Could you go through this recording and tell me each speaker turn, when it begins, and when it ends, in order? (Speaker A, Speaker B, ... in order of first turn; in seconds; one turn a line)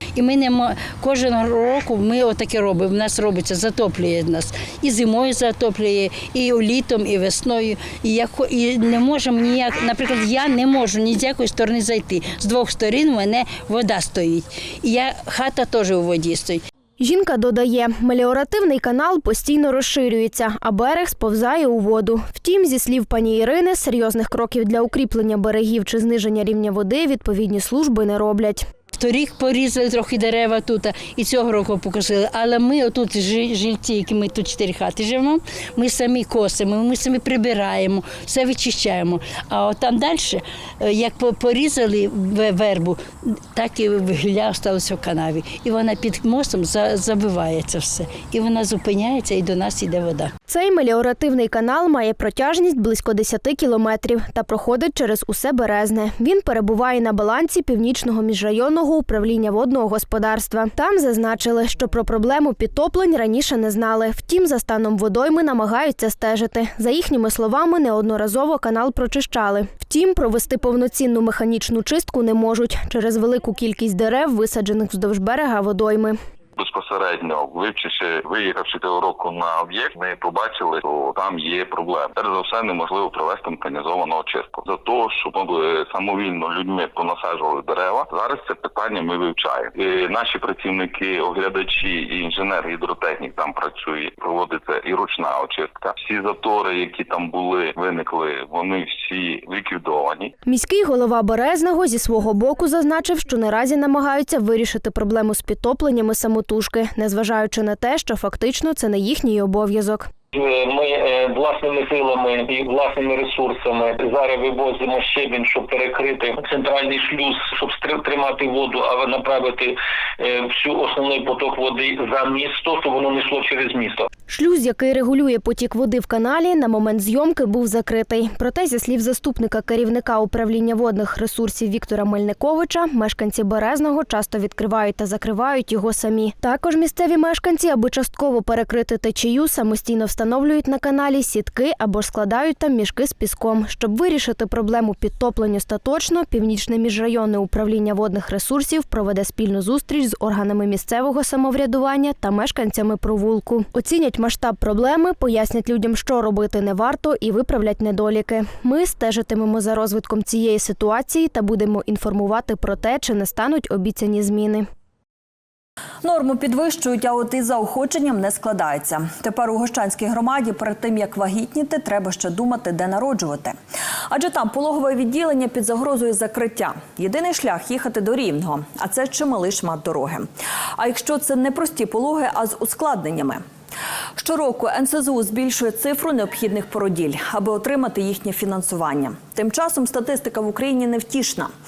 Speaker A: 0.2-16.6
Speaker B: 17.0-28.7
Speaker A: 28.9-50.3
Speaker B: 50.5-76.2
Speaker C: 76.5-100.3
Speaker B: 100.5-110.1
Speaker D: 110.3-124.1
Speaker B: 124.3-164.7
Speaker E: 166.0-173.5
Speaker E: 174.1-183.4
Speaker E: 184.2-191.5